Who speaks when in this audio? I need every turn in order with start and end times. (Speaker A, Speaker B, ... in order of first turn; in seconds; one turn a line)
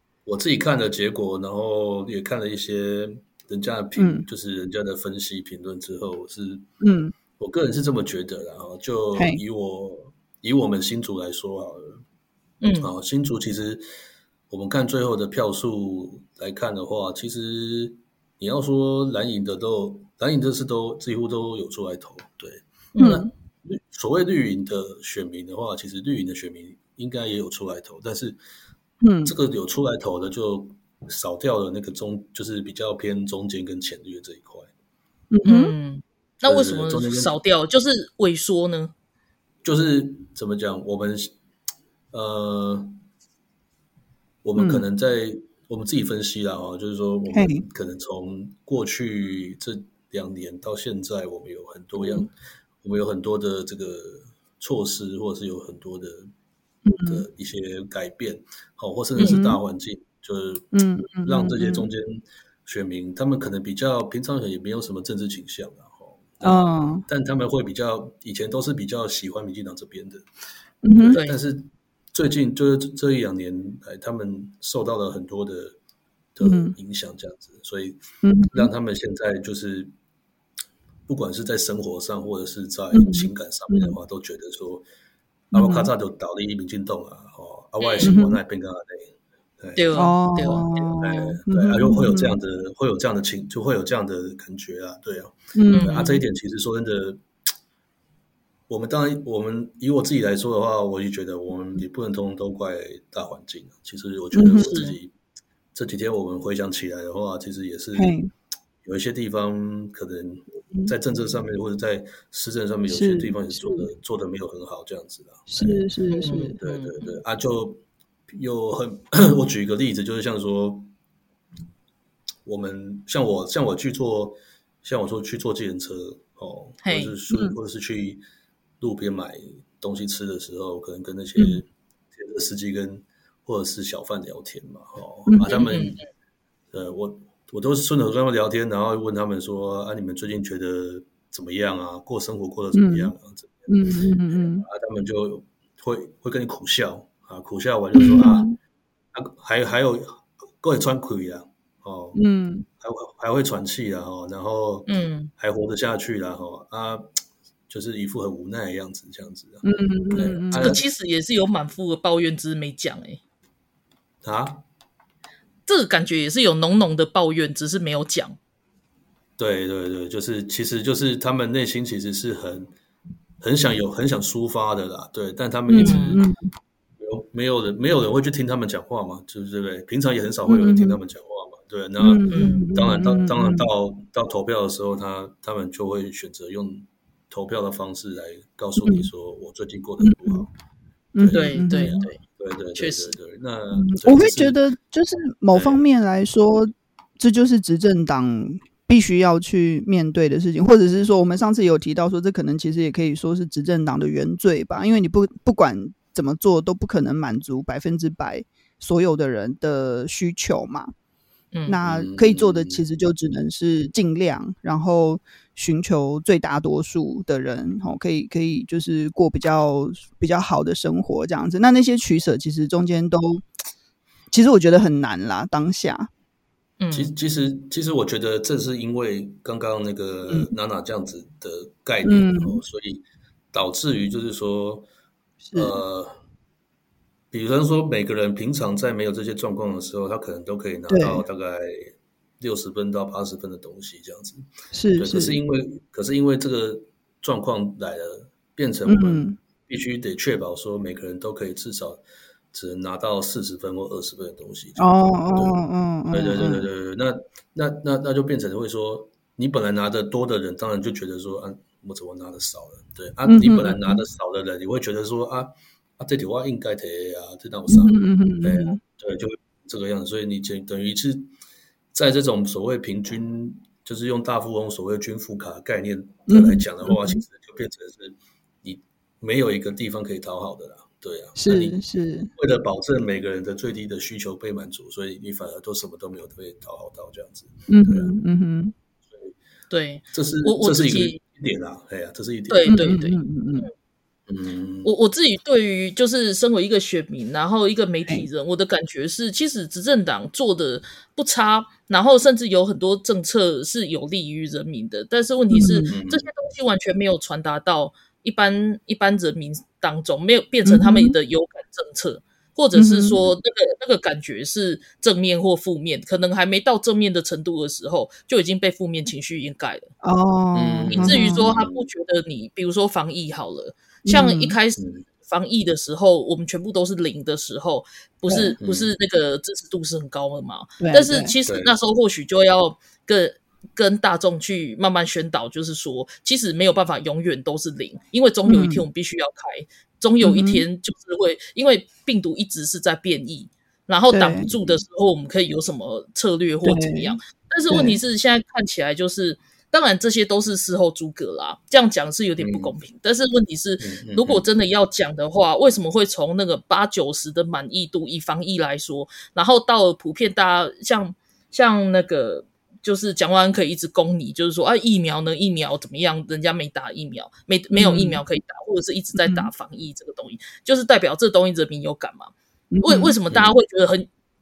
Speaker A: 0.2-6.7
Speaker B: 4.0-4.2
Speaker B: 6.8-7.1
Speaker A: 7.3-12.0
Speaker B: 9.1-9.4
Speaker C: 12.6-12.9
Speaker A: 12.8-13.8
Speaker A: 14.5-28.4
Speaker C: 22.9-23.2
Speaker B: 29.0-29.3
Speaker A: 29.2-34.7
Speaker B: 35.3-35.7
Speaker C: 35.5-38.9
Speaker A: 36.4-37.3
Speaker A: 39.6-41.3
Speaker A: 42.1-43.0
Speaker A: 44.4-52.3
Speaker B: 44.6-44.8
Speaker B: 47.3-47.6
Speaker B: 52.0-52.3
Speaker A: 52.8-56.3
Speaker B: 56.9-57.2
Speaker A: 57.0-60.7
Speaker B: 59.2-59.6
Speaker B: 60.7-61.9
Speaker A: 61.2-70.2
Speaker B: 66.4-67.0
Speaker B: 70.8-71.2
Speaker A: 70.9-75.8
Speaker C: 71.1-71.4
Speaker A: 76.3-79.9
Speaker B: 76.4-76.8
Speaker B: 78.2-78.7
Speaker A: 81.1-84.8
Speaker B: 82.9-84.0
Speaker A: 85.5-90.0
Speaker B: 85.5-85.9
Speaker C: 87.8-88.1
Speaker B: 88.0-88.4
Speaker C: 89.8-90.7
Speaker B: 90.0-92.4
Speaker A: 90.9-97.2
Speaker B: 95.5-96.1
Speaker C: 95.7-96.2
Speaker A: 98.7-105.1
Speaker B: 104.3-104.7
Speaker C: 104.5-105.0
Speaker A: 105.7-108.1
Speaker B: 107.9-108.3
Speaker A: 108.8-115.8
Speaker B: 112.9-113.9
Speaker B: 115.5-116.5
Speaker C: 116.1-117.2
Speaker A: 116.6-120.9
Speaker A: 122.4-128.2
Speaker C: 126.8-127.2
Speaker B: 127.3-127.5
Speaker A: 128.8-136.0
Speaker B: 135.3-135.6
Speaker C: 135.5-136.0
Speaker A: 136.7-143.7
Speaker B: 142.7-143.1
Speaker B: 143.7-144.6
Speaker A: 144.3-148.5
Speaker B: 147.9-148.6
Speaker A: 149.1-152.2
Speaker B: 152.1-152.6
Speaker A: 152.8-157.1
Speaker C: 154.9-155.3
Speaker A: 157.7-160.8
Speaker B: 159.6-160.8
Speaker C: 160.5-163.2
Speaker A: 164.2-164.6
Speaker C: 165.7-168.4
Speaker A: 169.4-172.7
Speaker A: 173.4-176.2
Speaker B: 175.7-176.4
Speaker C: 175.8-176.2
Speaker A: 177.0-190.5
Speaker B: 180.4-181.0
Speaker B: 182.0-183.7
Speaker C: 182.3-182.6
Speaker B: 188.8-189.1
Speaker B: 190.0-190.5
Speaker B: 191.1-192.1
Speaker A: 191.2-194.6
Speaker C: 191.3-192.2
Speaker C: 192.8-193.1
Speaker B: 193.7-210.9
Speaker A: 195.5-195.8
Speaker C: 211.5-211.8
Speaker B: 211.7-223.4
Speaker A: 211.8-212.8
Speaker B: 224.3-226.1
Speaker C: 226.8-227.1
Speaker A: 226.9-234.9
Speaker B: 232.0-232.6
Speaker B: 235.4-235.8
Speaker A: 235.5-236.2
Speaker A: 237.3-252.0
Speaker B: 240.9-241.2
Speaker B: 244.7-245.4
Speaker B: 248.8-249.4
Speaker A: 252.5-255.6
Speaker B: 254.8-256.7
Speaker A: 256.1-271.3
Speaker B: 263.2-264.0
Speaker B: 267.7-268.8
Speaker A: 271.9-281.8
Speaker B: 276.3-277.2
Speaker B: 281.4-282.3
Speaker A: 282.4-288.1
Speaker B: 287.7-288.7
Speaker C: 289.7-291.2
Speaker A: 290.1-292.9
Speaker C: 292.5-293.7
Speaker B: 292.7-293.7
Speaker A: 294.3-294.9
Speaker C: 294.8-319.9
Speaker B: 305.5-305.9
Speaker A: 305.9-306.3
Speaker B: 310.6-311.1
Speaker B: 312.7-313.1
Speaker B: 320.0-321.4
Speaker A: 320.5-321.8
Speaker C: 320.9-372.3
Speaker B: 324.0-324.5
Speaker A: 324.8-325.0
Speaker B: 328.3-328.5
Speaker A: 328.6-328.9
Speaker B: 330.8-331.3
Speaker A: 331.4-331.7
Speaker B: 338.4-338.8
Speaker B: 340.2-340.6
Speaker B: 344.1-344.4
Speaker A: 344.4-344.8
Speaker B: 346.6-347.2
Speaker B: 347.7-348.0
Speaker A: 352.4-352.7
Speaker A: 353.8-354.4
Speaker B: 367.7-368.2
Speaker B: 369.2-369.5
Speaker B: 372.7-373.1
Speaker C: 372.8-374.1
Speaker A: 373.3-373.5